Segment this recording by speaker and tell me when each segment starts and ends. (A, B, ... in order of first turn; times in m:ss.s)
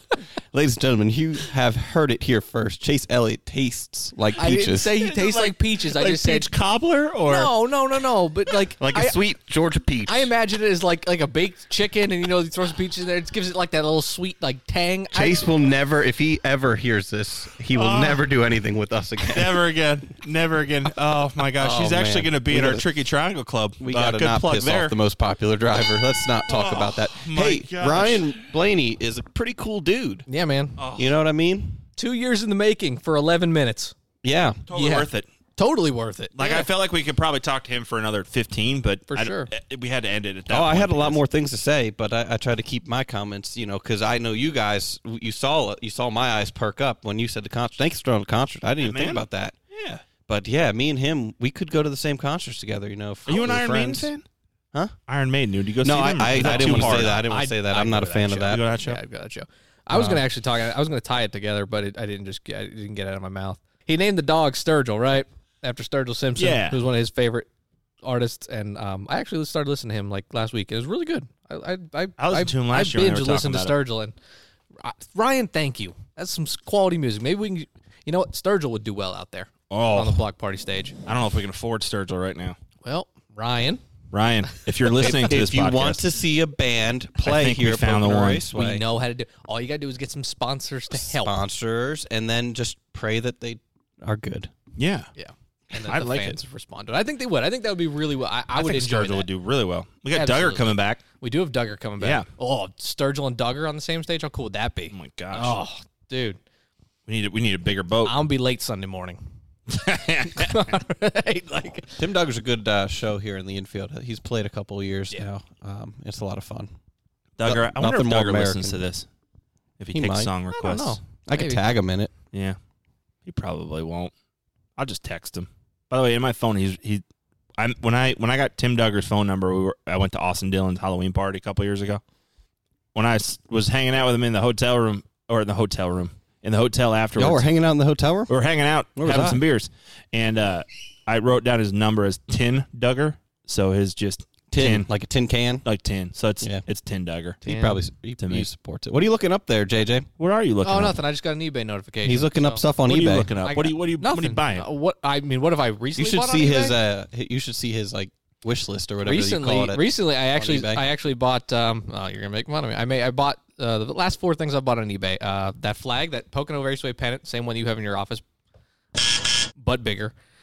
0:00.5-0:04.9 A
0:04.4-0:06.5 B
0:05.0-0:07.5 C
0:07.3-0:09.2 B
0:08.8-0:10.3 A
0:10.1-0:15.5 B
0:15.1-0:19.6 A
0:17.7-0:18.3 C
0:19.3-0:25.0 C
0:21.6-0:22.8 A
0:23.8-0:30.3 A
0:26.5-0:28.3 C
0:30.3-0:30.8 B
0:30.8-0:31.2 C
0:31.0-0:31.8 A
0:32.0-0:34.0 B
0:34.2-0:34.6 A
0:34.7-0:35.3 C
0:34.7-0:36.7 B
0:36.4-0:41.2 C
0:39.1-0:39.5 B
0:40.5-0:49.6 A
0:48.8-0:50.0 C
0:50.2-0:54.1 A
0:53.3-0:54.2 C
0:55.1-0:57.2 C
0:55.8-0:58.6 A
0:56.3-1:07.5 B
0:58.4-0:59.0 C
0:59.9-1:00.2 C
1:06.4-1:06.8 C
1:08.0-1:14.2 B
1:12.2-1:13.8 C
1:14.8-1:21.0 B
1:19.7-1:20.2 C
1:21.1-1:22.6 C
1:22.8-1:23.8 B
1:24.1-1:26.0 C
1:24.9-1:28.8 A
1:27.2-1:28.5 C
1:28.5-1:31.4 B
1:31.0-1:34.5 A
1:34.8-1:35.1 C
1:35.2-1:39.3 B
1:35.8-1:36.4 C
1:38.5-1:41.0 C
1:40.1-1:46.4 B
1:42.0-1:42.3 C
1:44.9-1:45.6 C
1:47.1-1:48.2 C
1:48.0-1:49.2 B
1:49.7-1:50.7 C
1:50.4-1:52.0 B
1:52.0-1:56.7 A
1:57.4-1:59.1 C
1:57.4-1:58.8 A
1:59.8-2:01.0 C
1:59.9-2:00.3 A
2:00.5-2:01.6 B
2:01.3-2:02.1 A
2:02.3-2:02.6 C
2:03.2-2:04.1 C
2:04.8-2:07.0 C
2:07.6-2:12.0 C
2:13.0-2:17.5 C
2:17.2-2:18.3 A
2:18.3-2:24.9 C
2:19.0-2:19.4 A
2:24.5-2:25.7 A
2:25.6-2:27.4 C
2:27.4-2:30.1 A
2:27.5-2:27.8 B
2:28.2-2:28.5 C
2:30.2-2:31.0 C
2:30.6-2:32.6 B
2:32.0-2:33.3 A
2:32.8-2:34.7 C
2:33.4-2:36.8 B
2:36.0-2:40.9 A
2:39.0-2:48.2 B
2:49.6-2:50.2 B